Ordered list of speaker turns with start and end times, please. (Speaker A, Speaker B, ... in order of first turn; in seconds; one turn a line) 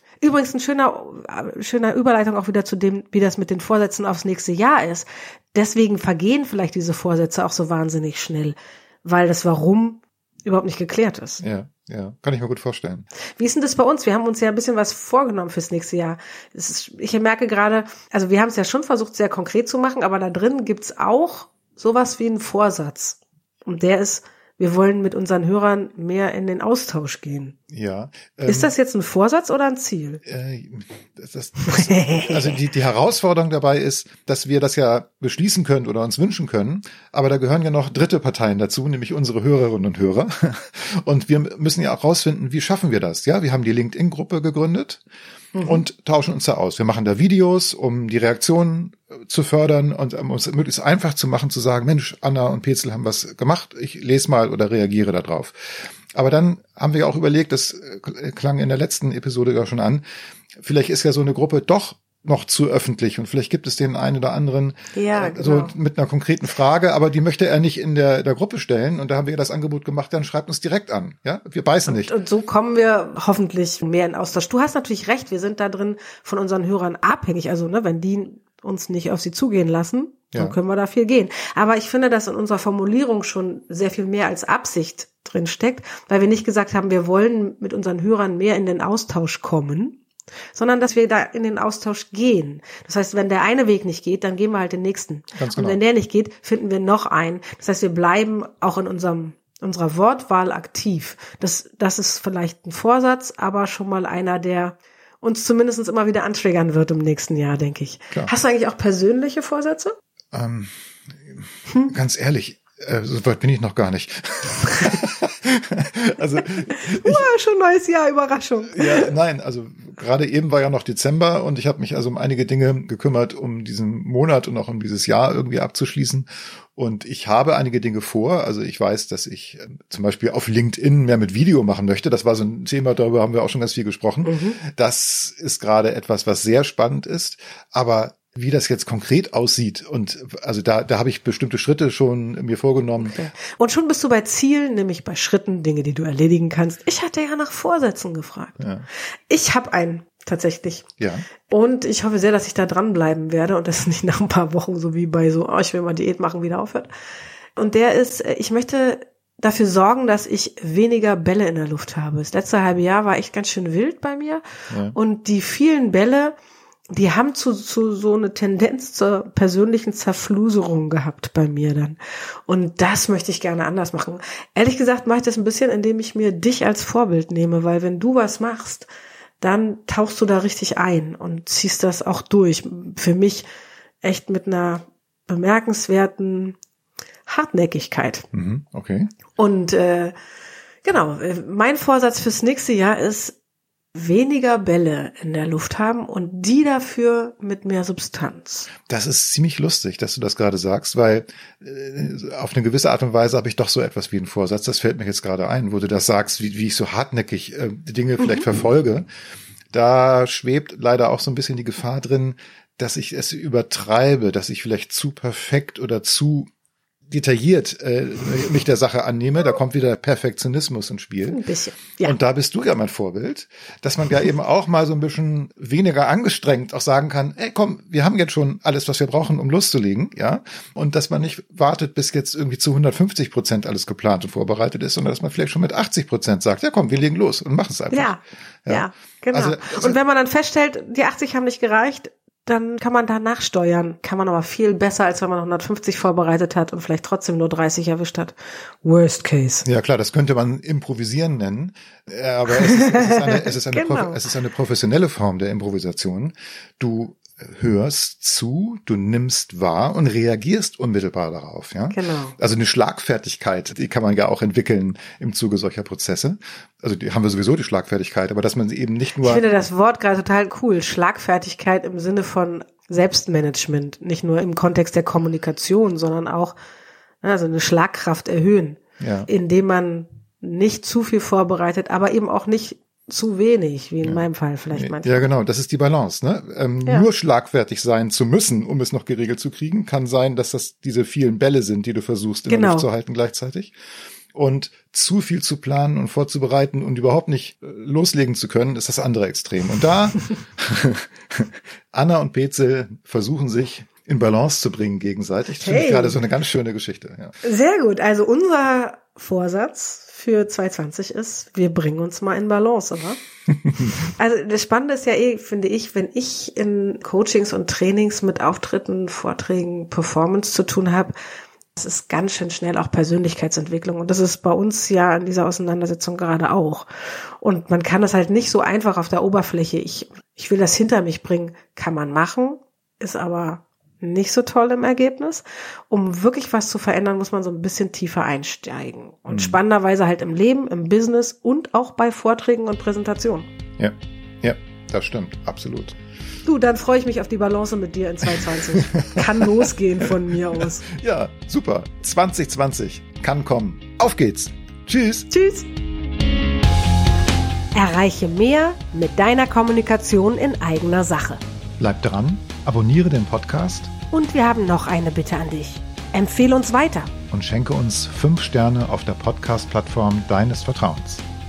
Speaker A: 0.2-11.4
Speaker B: 11.4-13.1
Speaker A: 13.4-27.6
Speaker B: 27.7-28.7
Speaker A: 28.4-30.2
Speaker B: 30.3-45.0
Speaker A: 31.7-32.6
Speaker A: 45.5-45.8
Speaker B: 45.6-60.0
Speaker B: 60.6-72.1
Speaker A: 64.9-65.7
Speaker A: 71.9-90.0
Speaker A: 90.5-110.0
Speaker B: 95.4-95.8
Speaker B: 110.3-117.3
Speaker A: 116.7-119.1
Speaker B: 118.7-143.2
Speaker A: 134.2-134.6
Speaker A: 143.0-148.7
Speaker B: 148.6-148.9
Speaker A: 149.3-150.9
Speaker B: 151.0-151.3
Speaker A: 151.5-156.9
Speaker A: 157.6-166.3
Speaker B: 164.7-165.0
Speaker A: 166.9-178.9
Speaker A: 179.4-183.5
Speaker A: 184.0-186.6
Speaker A: 187.3-188.2
Speaker B: 188.3-189.1
Speaker A: 189.4-190.2
Speaker A: 190.8-193.4
Speaker A: 193.9-198.7
Speaker B: 198.9-209.1
Speaker B: 209.7-216.5
Speaker B: 217.1-221.4
Speaker A: 221.3-222.2
Speaker B: 222.0-240.0
Speaker A: 237.9-249.7
Speaker B: 249.7-269.4
Speaker A: 252.5-254.2
Speaker A: 261.9-262.4
Speaker A: 269.2-276.6
Speaker A: 277.2-285.3
Speaker B: 279.0-279.3
Speaker B: 284.0-293.8
Speaker A: 292.5-292.9
Speaker B: 294.3-307.3
Speaker A: 305.6-306.2
Speaker A: 307.4-313.2
Speaker A: 314.0-321.1
Speaker A: 321.8-326.9
Speaker A: 327.4-343.5
Speaker B: 339.3-339.6
Speaker B: 343.8-346.0
Speaker A: 346.4-350.9
Speaker B: 348.8-349.7
Speaker B: 350.6-355.3
Speaker A: 355.3-355.7
Speaker A: 357.8-361.4
Speaker B: 361.8-363.9
Speaker A: 364.1-367.1
Speaker B: 367.3-371.2